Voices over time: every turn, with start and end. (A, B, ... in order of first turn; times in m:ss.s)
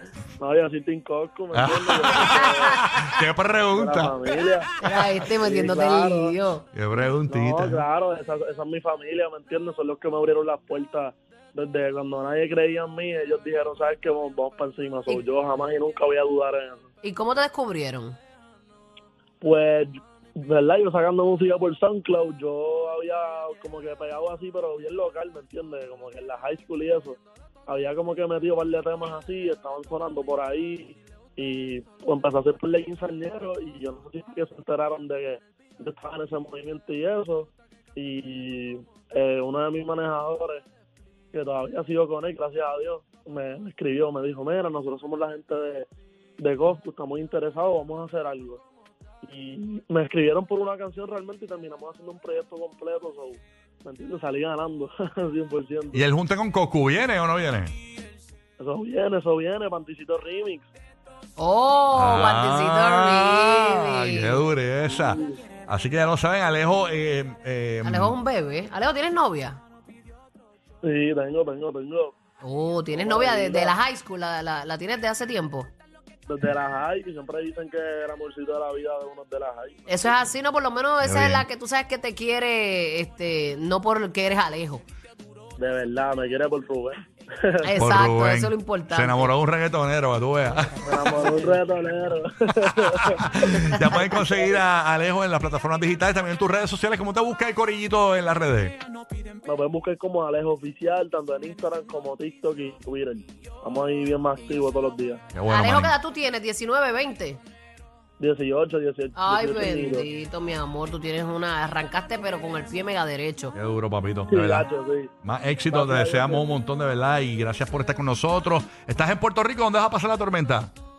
0:00.4-0:02.8 A
0:01.5-0:04.1 B
0:03.8-0:06.4 A
0:04.8-0:06.6 C
0:06.7-0:07.8 B
0:07.3-0:16.9 A
0:17.0-0:18.2 C
0:19.4-0:40.6 A
0:41.3-0:45.9 A
0:46.4-0:48.6 A
0:49.2-0:56.0 A
0:55.9-0:57.7 B
0:58.6-1:00.7 A
1:01.4-1:04.4 C
1:01.9-1:08.2 B
1:04.9-1:05.3 A
1:07.8-1:09.6 C
1:10.8-1:12.1 A
1:12.4-1:15.7 C
1:12.9-1:13.7 A
1:16.3-1:20.2 A
1:19.9-1:24.8 C
1:21.0-1:21.4 B
1:25.6-1:27.7 A
1:27.6-1:29.3 C
1:27.8-1:31.2 B
1:30.8-1:34.6 A
1:33.5-1:38.8 B
1:39.4-1:45.2 A
1:45.3-1:45.9 B
1:45.5-1:47.4 C
1:48.2-1:50.1 A
1:49.2-1:53.5 C
1:53.5-1:54.7 B
1:54.3-1:55.1 A
1:55.2-2:00.7 B
1:55.7-1:56.4 A